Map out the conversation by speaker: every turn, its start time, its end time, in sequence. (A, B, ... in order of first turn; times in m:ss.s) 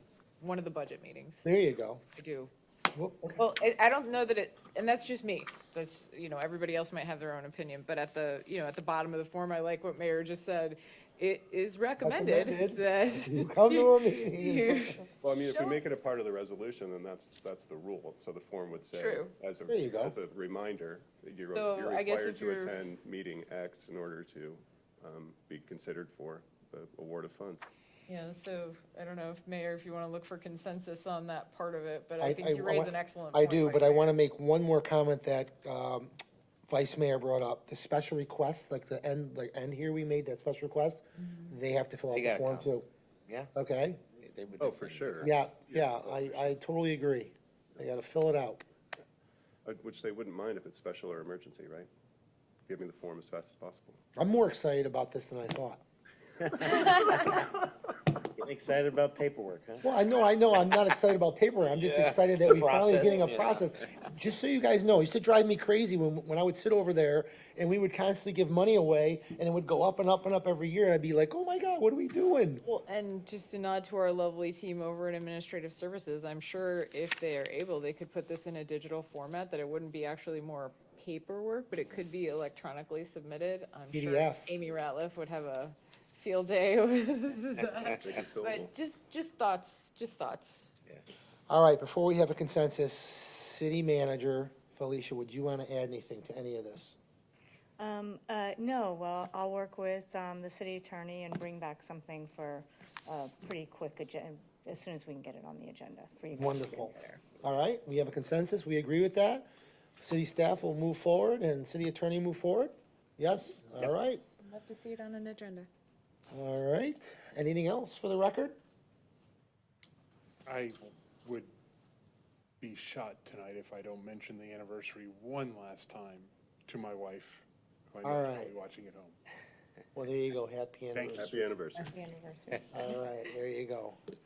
0:00.4-0:01.4 A
0:01.4-0:02.0 B
0:02.2-0:02.5 A
0:02.9-0:03.4 B
0:03.4-0:15.8 A
0:12.0-0:15.0 B
0:15.2-0:27.6 C
0:18.9-0:19.3 A
0:19.7-0:20.2 B
0:21.5-0:22.8 A
0:28.1-0:34.1 A
0:32.2-0:36.1 B
0:36.7-0:42.9 B
0:41.2-0:41.5 A
0:42.2-0:42.7 D
0:43.5-0:44.0 B
0:44.2-0:45.3 D
0:44.6-0:45.3 C
0:45.2-0:48.6 B
0:49.6-0:51.9 C
0:52.6-0:54.0 C
0:54.2-0:55.8 B
0:56.5-0:57.3 D
0:58.3-0:59.8 D
0:59.8-1:12.6 B
1:01.7-1:03.7 D
1:12.6-1:30.7 A
1:23.9-1:24.5 B
1:27.8-1:28.7 C
1:31.5-1:37.0 B
1:37.8-1:47.2 E
1:46.3-1:49.5 B
1:50.0-1:54.2 B
1:54.4-1:55.7 A
1:56.3-1:58.6 B
2:00.4-2:01.5 F
2:02.6-2:09.2 F
2:08.0-2:08.5 B
2:09.9-2:11.4 B
2:10.9-2:11.3 F
2:11.2-2:11.9 C
2:11.7-2:12.8 E
2:12.7-2:14.0 B